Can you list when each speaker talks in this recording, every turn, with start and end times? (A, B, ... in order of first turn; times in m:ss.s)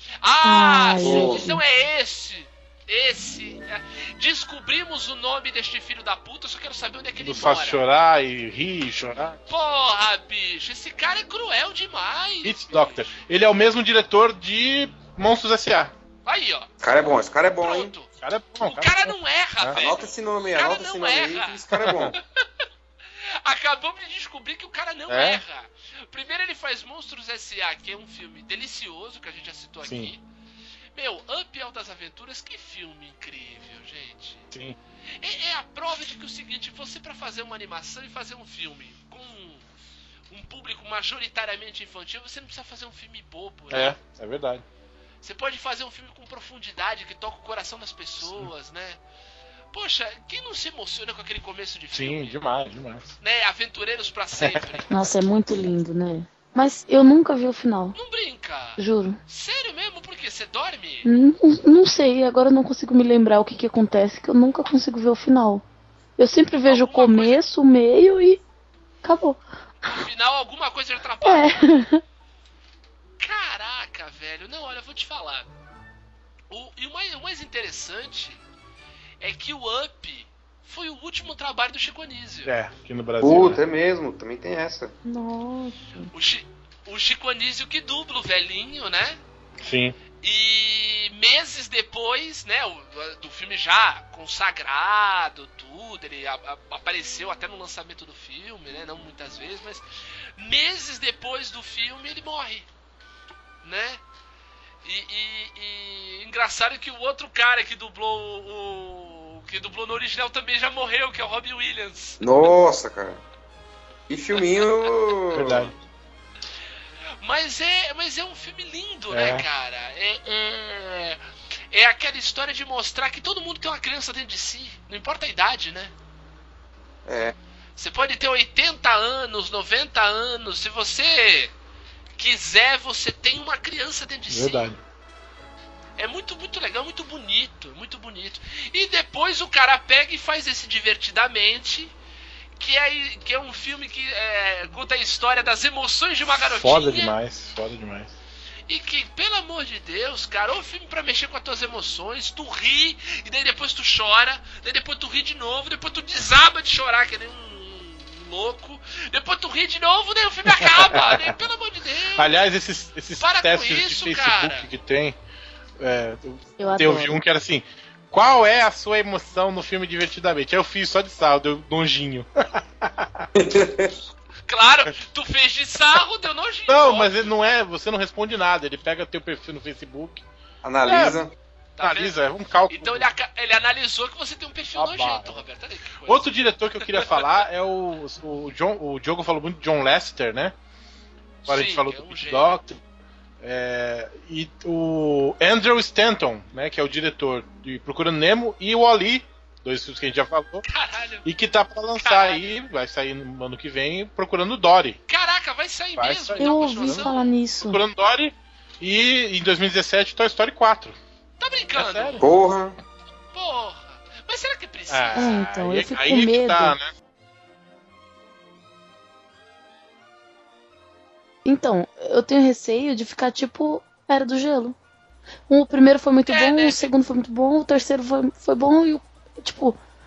0:00.2-0:07.8 A
0:00.4-0:01.6 B
0:01.0-0:01.5 C
0:07.2-0:09.4 D
0:09.5-0:13.2 A
0:12.4-0:15.9 D
0:16.3-0:16.7 A
0:16.8-0:17.9 C
0:17.6-0:18.1 A
0:18.2-0:19.8 D
0:18.6-0:21.6 A
0:19.7-0:22.2 C
0:21.7-0:22.2 D
0:23.4-0:30.2 A
0:25.1-0:25.4 D
0:29.8-0:30.1 D
0:30.9-0:34.5 A
0:35.2-0:39.7 A
0:40.3-0:44.0 A
0:43.7-0:44.6 D
0:45.2-0:49.0 A
0:48.2-0:48.5 D
0:49.7-0:52.4 A
0:51.9-0:53.1 D
0:53.2-0:54.9 A
0:54.4-0:54.8 D
0:54.9-0:58.0 B
0:57.9-1:01.1 A
0:58.8-0:59.2 B
1:01.1-1:05.6 B
1:06.2-1:08.4 B
1:06.6-1:07.4 A
1:09.0-1:09.4 B
1:09.8-1:11.6 A
1:11.2-1:12.0 B
1:13.2-1:15.5 A
1:16.5-1:18.4 A
1:19.2-1:22.5 A
1:22.4-1:23.6 D
1:23.2-1:24.9 C
1:25.1-1:26.1 B
1:26.1-1:29.2 A
1:29.6-1:30.0 D
1:30.2-1:39.8 A
1:40.4-1:42.7 A
1:43.6-1:44.0 A
1:44.8-1:52.2 A
1:52.2-1:53.2 C
1:54.1-1:55.7 C
1:55.3-1:55.7 D
1:57.2-2:01.2 A
1:59.1-1:59.4 D
2:01.7-2:05.9 A
2:07.1-2:07.4 C
2:07.8-2:11.5 A
2:12.2-2:14.7 A
2:14.3-2:14.8 D
2:16.0-2:21.9 A
2:22.6-2:27.1 A
2:26.4-2:28.1 D
2:28.7-2:42.3 A
2:40.6-2:41.3 D
2:42.2-2:45.2 D
2:43.2-2:44.7 A
2:45.8-2:53.3 D
2:46.6-2:47.1 B
2:53.4-2:53.9 C
2:54.5-2:57.3 A
2:56.7-3:00.2 D
3:00.6-3:01.3 C
3:00.8-3:01.2 D
3:01.8-3:02.1 A
3:01.8-3:03.1 D
3:02.7-3:06.3 A
3:04.8-3:05.4 D
3:06.1-3:10.5 D
3:07.0-3:07.3 A
3:11.4-3:12.6 A
3:11.4-3:12.8 D
3:13.4-3:20.6 D
3:20.7-3:21.2 A
3:21.2-3:25.0 D
3:22.0-3:22.4 A
3:25.1-3:27.3 A
3:26.0-3:27.1 D
3:26.4-3:27.8 B
3:27.6-3:31.0 D
3:31.4-3:32.3 A
3:31.8-3:32.3 D
3:32.2-3:32.8 C
3:33.3-3:35.4 A
3:34.9-3:36.9 D
3:35.1-3:36.7 B
3:41.4-3:44.8 B
3:45.5-3:49.8 B
3:46.3-3:46.9 A